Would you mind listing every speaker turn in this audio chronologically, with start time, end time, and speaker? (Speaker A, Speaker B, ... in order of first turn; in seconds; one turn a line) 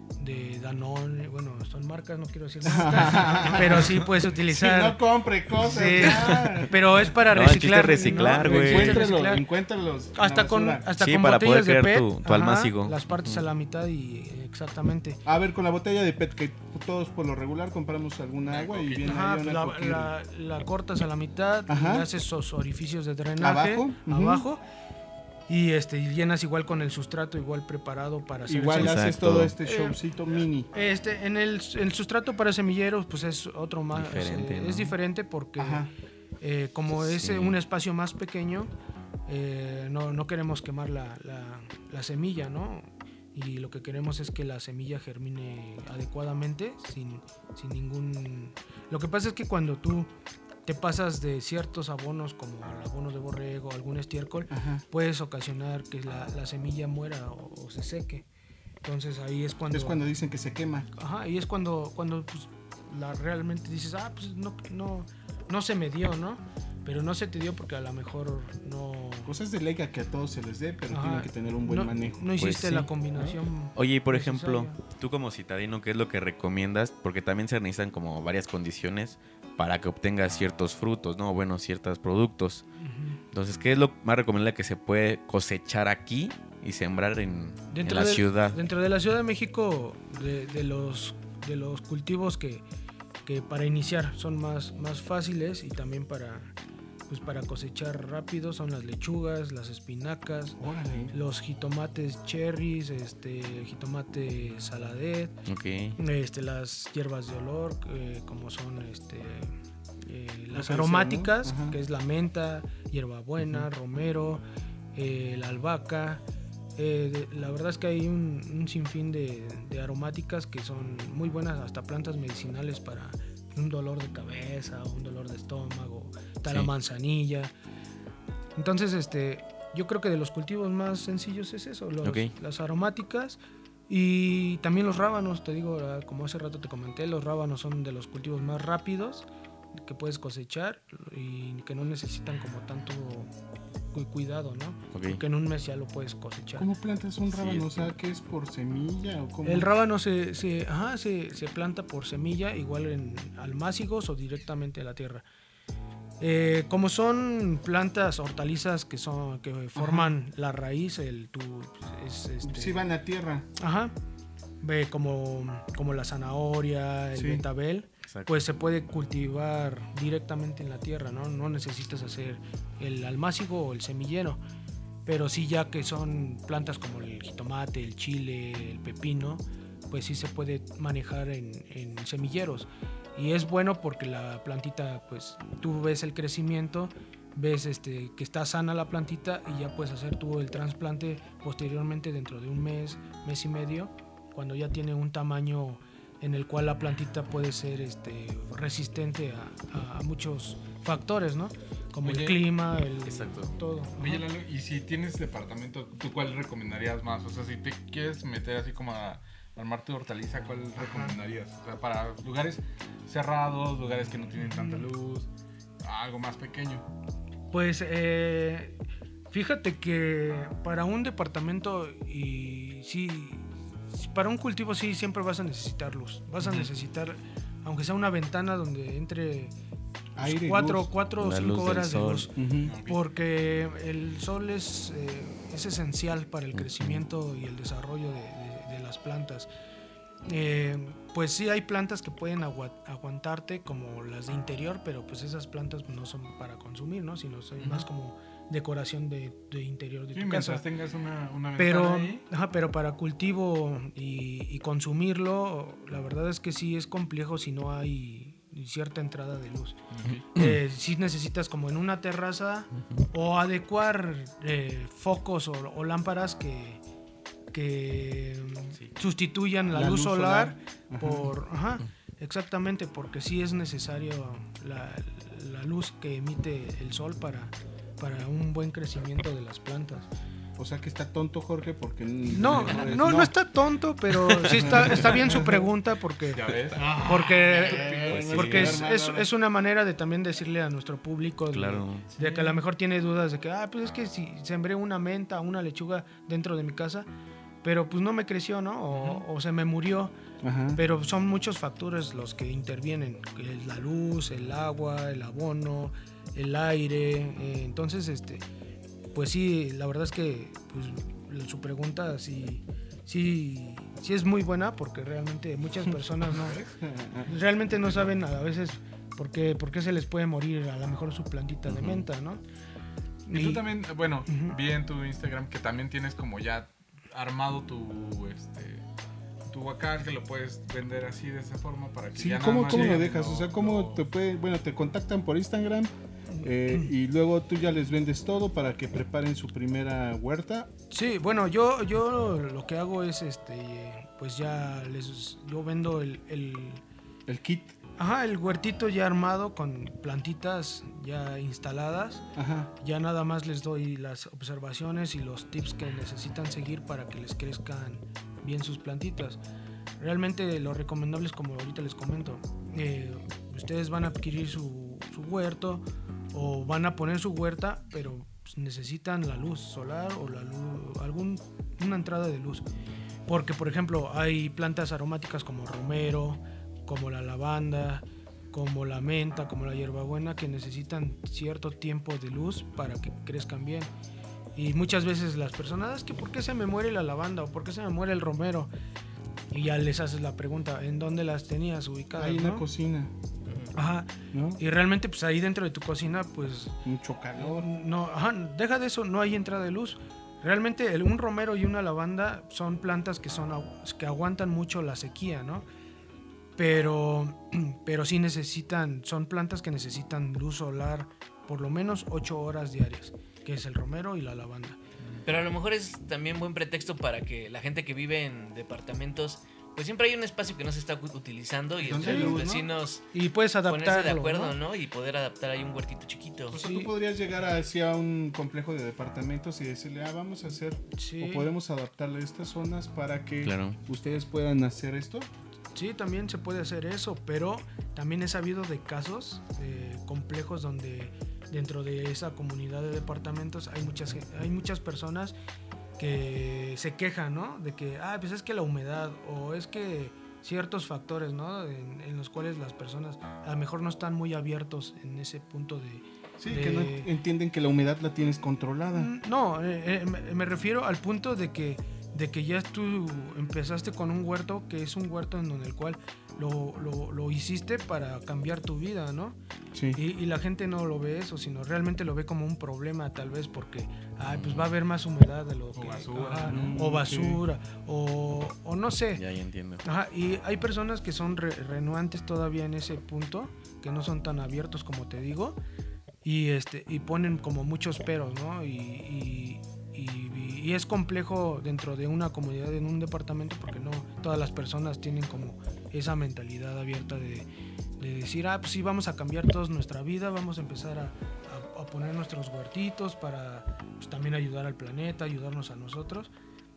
Speaker A: 0.2-5.0
Speaker B: 2.6-6.8
Speaker A: 5.6-9.5
Speaker C: 7.2-9.0
Speaker B: 8.1-10.8
Speaker A: 10.1-15.2
Speaker C: 10.9-13.4
Speaker B: 15.2-20.1
Speaker D: 18.4-19.2
Speaker A: 19.0-24.6
Speaker B: 21.7-22.1
Speaker B: 23.4-24.4
Speaker A: 25.5-30.0
Speaker B: 28.4-30.7
Speaker C: 28.7-29.5
Speaker A: 30.7-35.9
Speaker C: 33.9-34.9
Speaker B: 35.6-35.9
Speaker A: 36.4-38.7
Speaker C: 36.9-37.6
Speaker A: 39.3-50.1
Speaker A: 50.6-58.2
Speaker B: 54.5-54.8
Speaker A: 58.8-60.0
Speaker B: 59.7-60.9
Speaker A: 60.9-69.3
Speaker B: 69.2-72.3
Speaker A: 70.9-74.8
Speaker C: 72.3-72.9
Speaker C: 73.7-82.6
Speaker A: 82.8-83.2
Speaker C: 83.3-88.6
Speaker A: 87.7-92.6
Speaker A: 93.2-96.5
Speaker A: 97.1-105.4
Speaker B: 100.6-101.1
Speaker C: 105.5-106.0
Speaker A: 106.0-114.4
Speaker B: 110.5-111.8
Speaker A: 114.9-116.2
Speaker A: 116.8-127.5
Speaker C: 126.5-126.7
Speaker A: 128.6-143.3
Speaker C: 132.0-132.3
Speaker A: 143.9-146.7
Speaker C: 144.9-145.2
Speaker B: 146.6-149.7
Speaker C: 147.3-147.9
Speaker A: 149.4-155.2
Speaker A: 156.2-162.9
Speaker B: 159.8-160.2
Speaker B: 162.4-163.5
Speaker A: 163.6-163.9
Speaker A: 164.6-174.4
Speaker B: 167.1-167.4
Speaker A: 175.1-204.2
Speaker D: 202.0-202.4
Speaker C: 203.1-203.5
Speaker D: 203.9-215.3
Speaker A: 214.4-214.8
Speaker D: 215.8-216.8
Speaker A: 217.5-218.8
Speaker A: 219.3-229.5
Speaker D: 226.4-226.7
Speaker B: 230.2-230.9
Speaker A: 230.2-239.5
Speaker C: 231.2-232.3
Speaker B: 232.3-232.7
Speaker D: 232.7-233.0
Speaker C: 236.6-237.0
Speaker A: 240.3-250.6
Speaker D: 250.1-252.2
Speaker A: 251.6-259.8
Speaker D: 259.9-260.2
Speaker C: 260.1-260.6
Speaker A: 260.3-266.8
Speaker A: 267.5-280.1
Speaker B: 269.7-271.3
Speaker B: 280.6-283.3
Speaker A: 282.3-297.1
Speaker B: 284.5-285.7
Speaker D: 286.3-286.8
Speaker E: 286.8-288.3
Speaker B: 287.0-289.3
Speaker C: 288.1-288.8
Speaker C: 291.5-292.1
Speaker D: 292.2-292.5
Speaker A: 297.6-300.1
Speaker D: 298.9-299.2
Speaker B: 300.4-300.8
Speaker A: 300.7-308.4
Speaker A: 309.1-316.7
Speaker B: 316.6-317.3
Speaker A: 317.2-322.4
Speaker C: 321.7-322.1
Speaker A: 323.3-323.6
Speaker D: 323.3-328.8
Speaker A: 324.3-324.5
Speaker D: 329.5-334.0
Speaker B: 332.1-335.9
Speaker A: 336.4-336.9
Speaker B: 336.4-340.7
Speaker A: 340.9-346.8
Speaker B: 347.3-347.7
Speaker A: 348.0-352.2
Speaker B: 352.4-352.7
Speaker A: 352.8-359.4
Speaker A: 360.0-372.6
Speaker A: 373.3-383.9
Speaker A: 384.5-388.7
Speaker A: 389.5-392.7
Speaker B: 392.2-393.1
Speaker A: 393.7-396.8
Speaker B: 394.3-394.6
Speaker B: 396.8-397.7
Speaker A: 397.4-405.6
Speaker A: 406.6-414.8
Speaker E: 415.2-423.0
Speaker B: 421.8-422.7
Speaker A: 422.0-422.4
Speaker A: 423.1-424.6
Speaker E: 423.6-426.6
Speaker B: 426.5-435.3
Speaker A: 426.5-426.9
Speaker A: 430.9-431.5
Speaker C: 433.4-433.8
Speaker A: 435.7-445.3
Speaker A: 446.0-457.1
Speaker B: 456.4-459.1
Speaker A: 458.9-469.4
Speaker B: 469.7-470.0
Speaker A: 469.9-479.2
Speaker C: 474.2-474.7
Speaker D: 475.7-476.7
Speaker B: 476.4-477.4
Speaker C: 479.1-479.8
Speaker A: 479.8-485.6
Speaker A: 486.2-497.5
Speaker A: 498.0-506.3